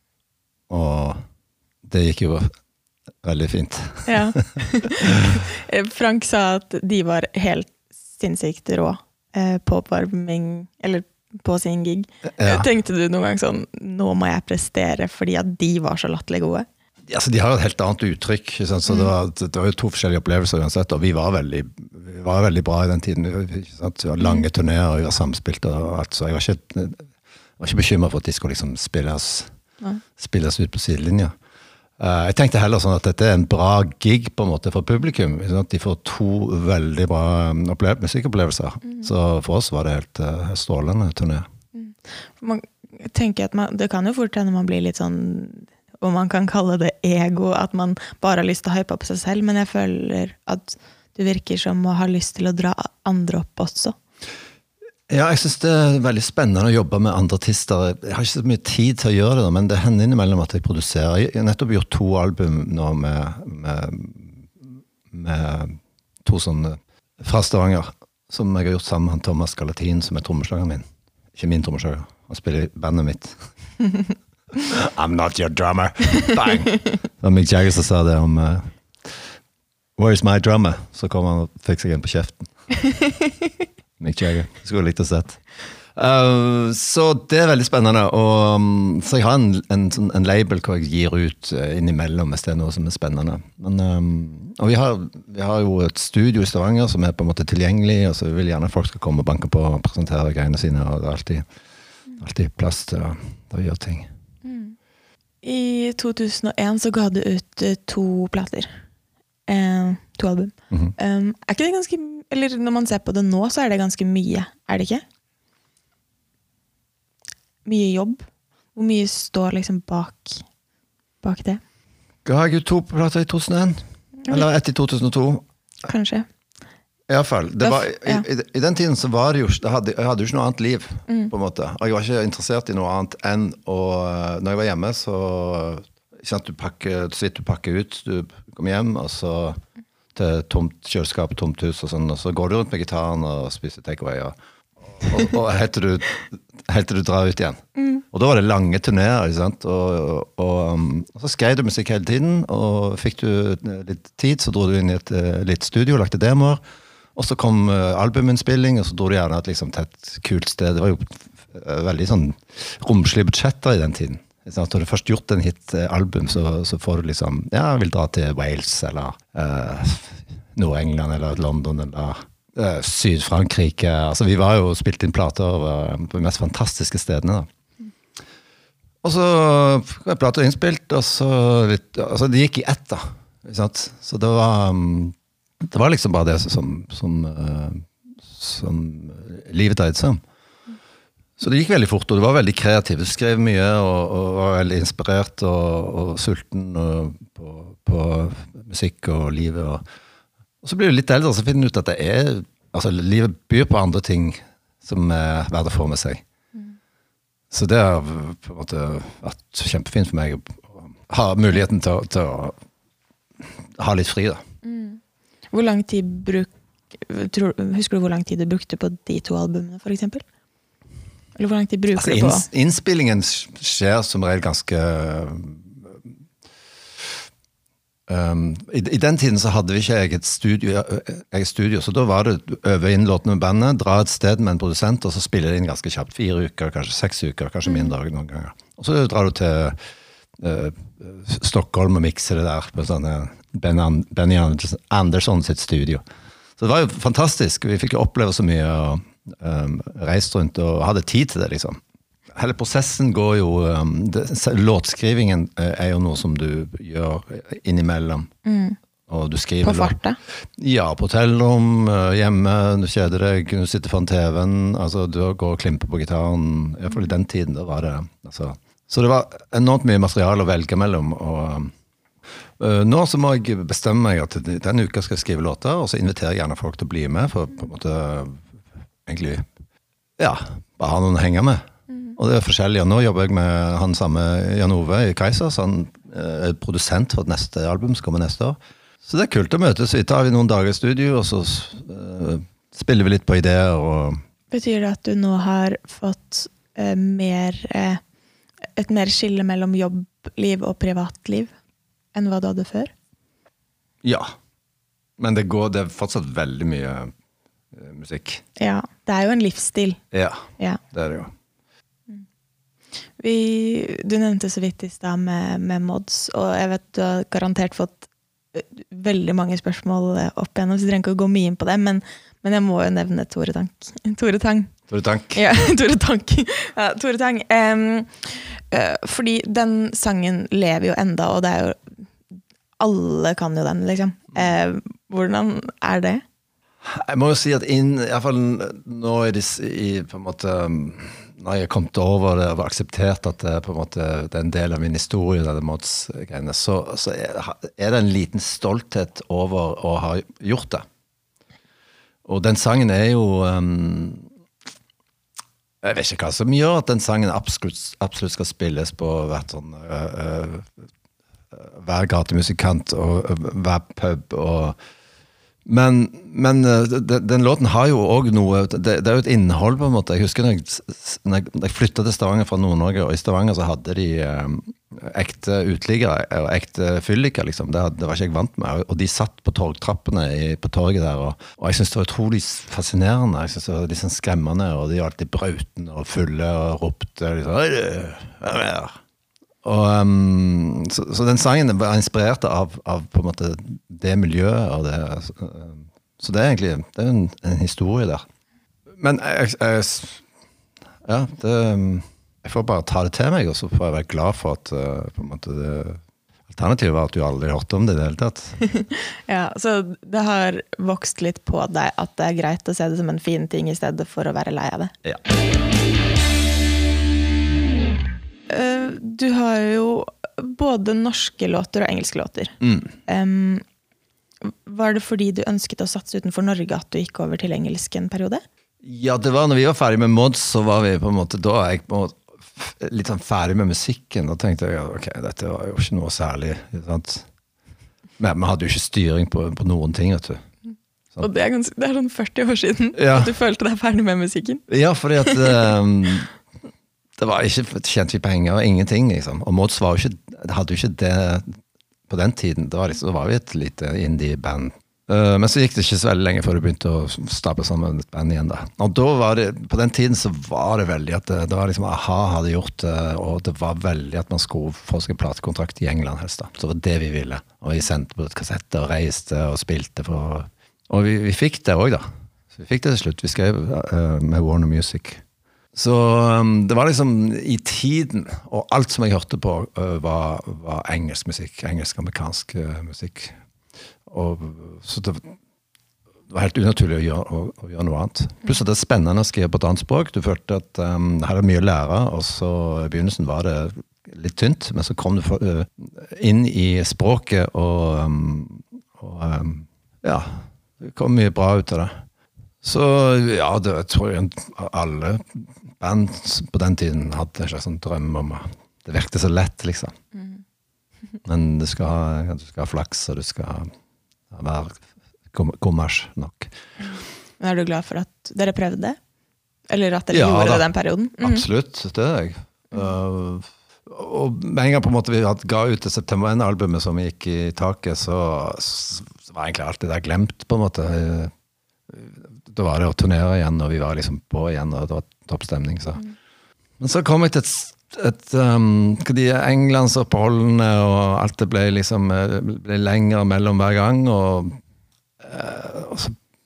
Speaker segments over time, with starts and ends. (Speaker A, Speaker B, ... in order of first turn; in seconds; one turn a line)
Speaker A: 0.7-1.2
Speaker A: 1.9-2.5
Speaker A: 3.2-4.3
Speaker B: 4.1-16.7
Speaker A: 12.4-12.7
Speaker A: 17.1-27.1
Speaker A: 27.6-29.5
Speaker A: 30.2-31.3
Speaker A: 32.0-41.5
Speaker B: 38.8-39.1
Speaker B: 41.7-54.0
Speaker A: 55.1-73.4
Speaker A: 74.6-79.2
Speaker A: 80.0-82.5
Speaker A: 84.0-85.4
Speaker A: 86.0-101.5
Speaker A: 102.2-104.1
Speaker B: 104.4-104.8
Speaker B: 105.4-108.8
Speaker B: 109.5-115.0
Speaker B: 117.7-120.5
Speaker B: 121.2-121.6
Speaker A: 122.2-125.5
Speaker B: 125.9-126.3
Speaker A: 127.1-139.6
Speaker B: 127.6-128.3
Speaker A: 140.2-144.3
Speaker A: 144.9-147.6
Speaker B: 147.8-148.0
Speaker A: 148.1-156.6
Speaker A: 157.2-177.5
Speaker A: 179.0-190.2
Speaker A: 191.4-199.8
Speaker A: 200.6-206.2
Speaker A: 207.5-212.6
Speaker A: 213.4-214.4
Speaker B: 214.6-215.0
Speaker B: 215.5-220.2
Speaker B: 221.4-222.5
Speaker A: 221.9-226.1
Speaker A: 228.1-239.8
Speaker B: 237.7-237.9
Speaker A: 240.4-246.0
Speaker A: 246.6-251.8
Speaker A: 252.3-258.3
Speaker B: 258.4-258.8
Speaker A: 259.1-260.0
Speaker B: 259.6-260.2
Speaker A: 260.6-271.7
Speaker A: 272.6-278.5
Speaker A: 279.1-279.5
Speaker A: 280.2-294.2
Speaker B: 294.5-298.0
Speaker B: 298.8-301.5
Speaker B: 302.1-302.9
Speaker A: 304.0-304.4
Speaker A: 305.2-307.1
Speaker A: 307.7-308.4
Speaker B: 308.6-310.0
Speaker A: 310.1-311.3
Speaker B: 313.2-324.7
Speaker A: 324.9-325.4
Speaker B: 325.3-332.0
Speaker B: 332.8-336.2
Speaker A: 336.8-350.9
Speaker A: 352.2-354.3
Speaker A: 355.8-360.9
Speaker A: 361.5-364.8
Speaker A: 365.6-389.0
Speaker A: 389.6-398.2
Speaker A: 399.0-400.2
Speaker A: 401.0-408.6
Speaker B: 408.7-414.9
Speaker B: 418.5-423.6
Speaker A: 422.6-422.9
Speaker B: 424.4-428.4
Speaker A: 428.8-437.3
Speaker A: 438.2-440.4
Speaker B: 441.2-444.6
Speaker A: 442.9-443.3
Speaker A: 444.7-446.3
Speaker B: 445.2-445.7
Speaker A: 447.2-451.6
Speaker A: 452.1-475.2
Speaker A: 475.7-483.4
Speaker A: 484.1-485.3
Speaker A: 486.3-502.0
Speaker A: 502.6-509.9
Speaker B: 510.2-510.4
Speaker A: 511.2-513.7
Speaker A: 514.3-516.5
Speaker B: 517.4-519.0
Speaker B: 519.7-521.5
Speaker A: 520.1-520.7
Speaker A: 521.2-531.3
Speaker A: 531.9-536.0
Speaker A: 536.8-544.6
Speaker A: 545.2-546.2